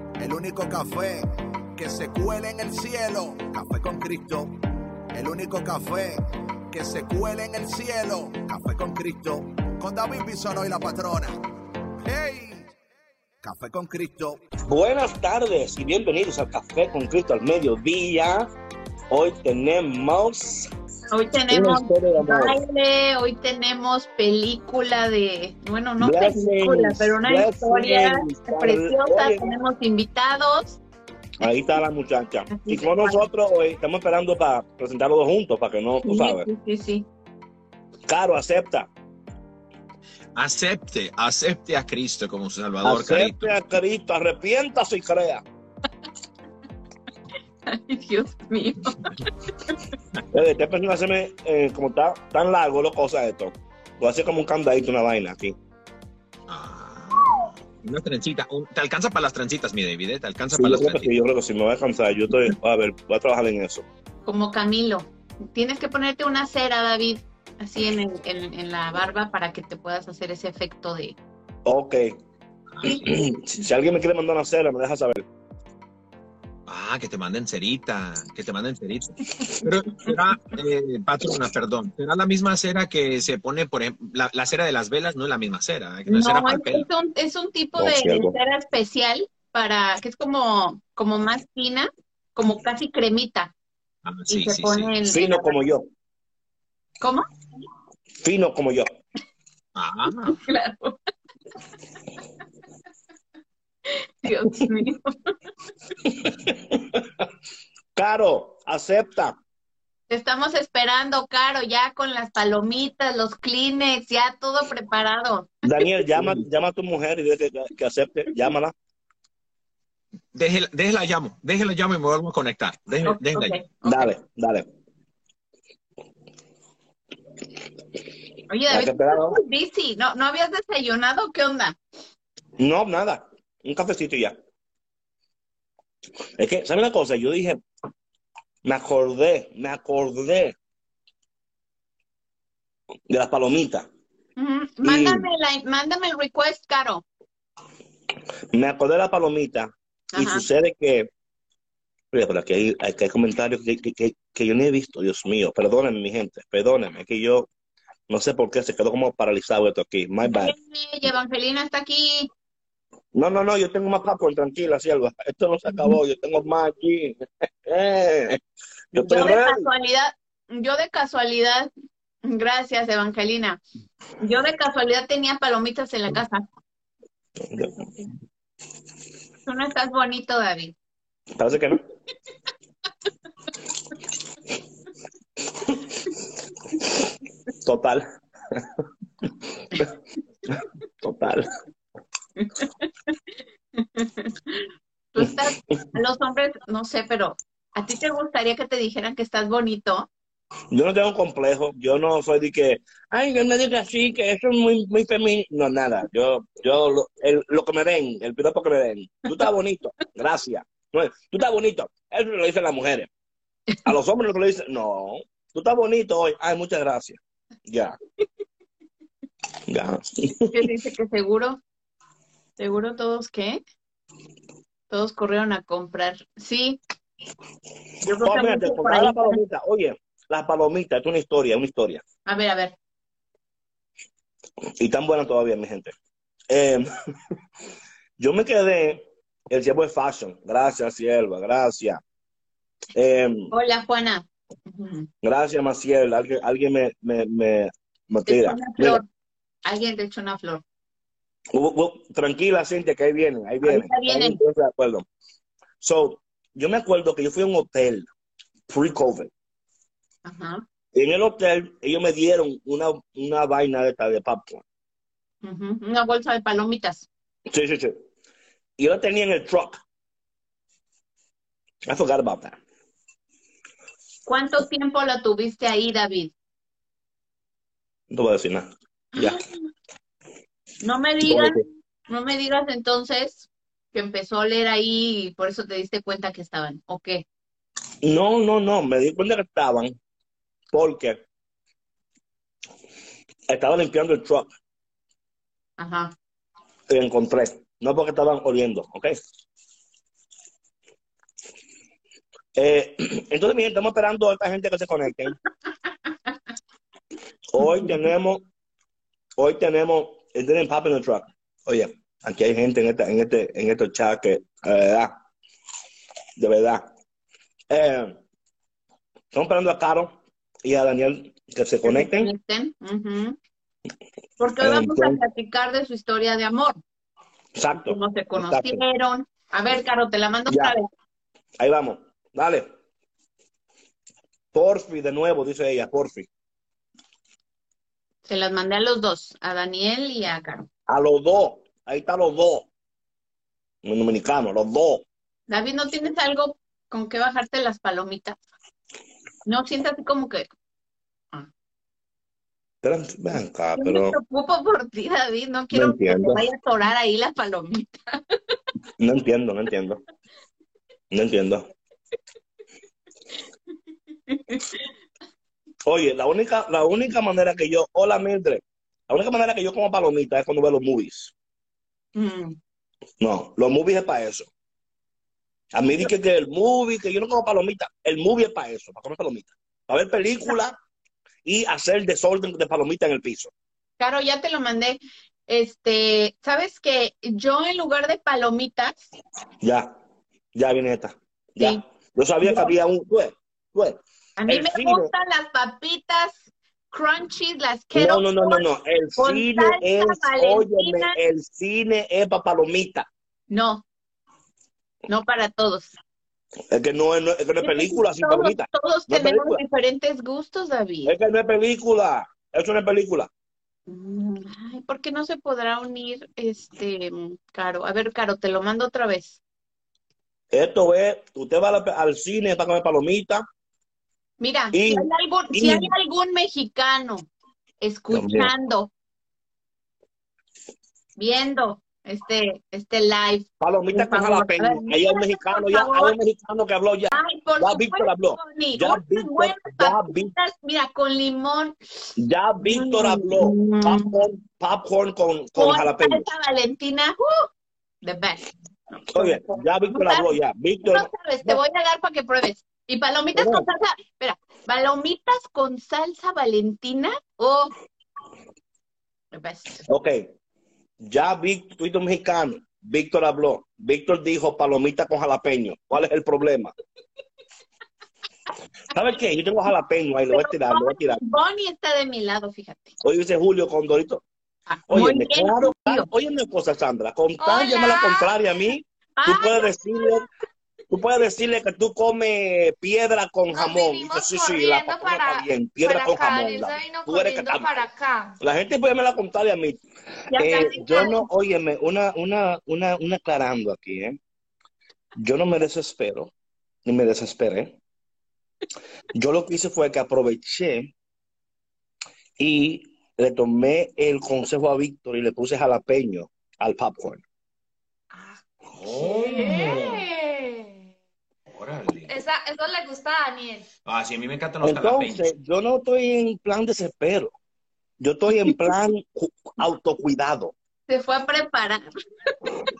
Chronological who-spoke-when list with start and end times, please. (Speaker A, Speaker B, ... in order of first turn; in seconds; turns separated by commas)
Speaker A: 0.2-4.5, Speaker A: 5.1-6.2, Speaker A: 6.7-11.3, Speaker A: 12.0-12.7, Speaker A: 13.4-14.4, Speaker B: 14.7-18.5, Speaker B: 19.1-20.7, Speaker C: 21.1-30.8, Speaker B: 21.5-22.6, Speaker B: 26.0-29.6, Speaker B: 31.4-36.5, Speaker C: 32.5-33.2, Speaker C: 36.0-37.1, Speaker B: 38.1-38.9, Speaker D: 40.3-43.5, Speaker B: 42.8-45.4, Speaker C: 47.7-49.7, Speaker B: 50.3-55.5, Speaker D: 56.5-61.1, Speaker B: 60.5-63.9, Speaker C: 64.2-71.2, Speaker B: 71.6-72.2, Speaker C: 72.8-73.1, Speaker B: 73.0-75.2, Speaker D: 76.7-86.9, Speaker C: 86.1-93.5, Speaker B: 87.8-88.4, Speaker D: 94.0-94.9, Speaker C: 94.3-95.5, Speaker B: 95.0-95.9, Speaker C: 97.0-97.3, Speaker B: 98.2-98.9, Speaker D: 99.8-100.4, Speaker C: 100.3-101.0, Speaker C: 103.9-105.3, Speaker B: 106.2-107.2, Speaker B: 107.9-109.4, Speaker C: 110.1-115.5, Speaker B: 115.6-118.7, Speaker D: 120.3-123.6, Speaker C: 123.0-124.1, Speaker B: 123.8-124.7, Speaker C: 128.5-131.8, Speaker B: 128.7-129.4, Speaker B: 132.6-134.3, Speaker B: 136.4-137.6, Speaker B: 138.6-140.5, Speaker B: 143.1-143.9, Speaker C: 144.4-147.0, Speaker B: 144.8-145.3, Speaker B: 148.5-151.1, Speaker C: 150.1-150.4, Speaker B: 152.1-157.5, Speaker B: 158.1-160.5, Speaker C: 160.2-162.3, Speaker B: 163.1-168.4, Speaker B: 168.9-169.7, Speaker C: 169.0-171.7, Speaker C: 172.2-173.6, Speaker C: 174.2-176.4, Speaker B: 177.5-177.8, Speaker C: 179.4-180.7, Speaker B: 181.3-181.8, Speaker B: 187.6-188.7, Speaker B: 191.0-191.5, Speaker C: 192.4-193.2, Speaker C: 193.8-200.1, Speaker B: 195.2-195.8, Speaker B: 200.7-213.1, Speaker B: 213.8-217.9, Speaker B: 219.7-220.7, Speaker C: 220.5-221.6, Speaker C: 222.6-223.6, Speaker C: 224.9-226.8, Speaker C: 228.0-229.4, Speaker B: 228.1-232.0, Speaker C: 232.2-232.7, Speaker B: 234.8-235.9, Speaker B: 236.5-236.9, Speaker B: 238.2-242.0, Speaker B: 242.9-243.5, Speaker C: 243.5-245.1, Speaker B: 245.2-249.0, Speaker C: 248.2-249.1, Speaker C: 249.6-250.6, Speaker B: 251.5-255.0, Speaker C: 253.6-254.4, Speaker B: 255.8-258.1, Speaker B: 258.7-259.3, Speaker C: 260.2-260.6, Speaker B: 260.9-264.6, Speaker C: 265.4-267.1, Speaker B: 267.5-268.0, Speaker B: 268.8-269.8, Speaker B: 271.8-272.6, Speaker C: 274.2-276.3, Speaker B: 278.1-279.4, Speaker C: 279.2-279.5, Speaker C: 280.8-287.2, Speaker B: 281.2-281.6, Speaker B: 288.0-290.0, Speaker B: 290.7-291.2, Speaker B: 293.5-294.5, Speaker C: 295.8-296.1, Speaker B: 296.9-299.1, Speaker B: 302.6-305.4, Speaker B: 307.5-308.4, Speaker B: 309.4-315.1, Speaker B: 316.4-316.9, Speaker B: 317.7-318.1, Speaker B: 319.3-322.3, Speaker C: 321.8-323.4, Speaker C: 324.4-326.8, Speaker B: 324.6-325.2, Speaker B: 327.5-328.8, Speaker C: 327.8-330.9, Speaker B: 330.5-330.8, Speaker B: 331.6-332.7, Speaker B: 334.5-336.3, Speaker C: 338.2-340.7, Speaker B: 340.9-342.7, Speaker B: 343.8-345.0, Speaker C: 345.5-348.4, Speaker C: 349.4-350.5, Speaker B: 352.8-354.2, Speaker C: 353.8-358.5, Speaker B: 355.7-356.4, Speaker B: 359.0-360.0, Speaker B: 361.1-361.7, Speaker C: 364.3-364.8, Speaker B: 365.9-371.3, Speaker C: 372.1-372.6, Speaker B: 373.2-374.5, Speaker B: 375.7-380.8, Speaker B: 381.4-383.5, Speaker C: 384.0-389.0, Speaker B: 389.6-389.9, Speaker B: 390.5-395.1, Speaker C: 392.4-392.7, Speaker C: 394.4-398.6, Speaker B: 397.9-403.1, Speaker C: 399.2-401.1, Speaker C: 403.5-403.8, Speaker C: 405.1-405.9, Speaker B: 406.7-409.6, Speaker C: 407.6-411.1, Speaker B: 411.0-413.3, Speaker C: 413.9-419.4, Speaker B: 420.5-423.4, Speaker C: 424.4-427.3, Speaker B: 424.7-425.9, Speaker C: 427.8-428.9, Speaker B: 428.1-428.5, Speaker C: 431.2-436.1, Speaker B: 433.6-440.3, Speaker C: 437.1-442.1, Speaker B: 442.2-446.3, Speaker C: 442.6-444.2, Speaker C: 445.6-447.5, Speaker C: 448.0-450.3, Speaker B: 449.1-451.6, Speaker C: 450.8-457.7, Speaker B: 453.3-453.6, Speaker C: 459.3-459.8, Speaker B: 459.9-460.2, Speaker B: 461.0-466.7, Speaker B: 468.9-471.2, Speaker C: 470.3-473.0, Speaker B: 473.0-474.2, Speaker C: 474.7-476.1, Speaker B: 474.9-480.2, Speaker E: 477.4-478.3, Speaker C: 479.2-480.2, Speaker B: 480.9-487.7, Speaker E: 483.5-488.4, Speaker B: 488.4-489.8, Speaker C: 490.3-491.2, Speaker B: 490.3-494.2, Speaker B: 495.2-496.3, Speaker B: 496.8-497.8, Speaker B: 499.1-500.9, Speaker B: 502.4-507.2, Speaker E: 508.1-510.9, Speaker D: 508.7-510.0, Speaker D: 511.5-512.1, Speaker E: 512.1-513.7, Speaker D: 513.9-515.3, Speaker B: 514.6-517.3, Speaker B: 518.0-520.5, Speaker C: 520.9-521.9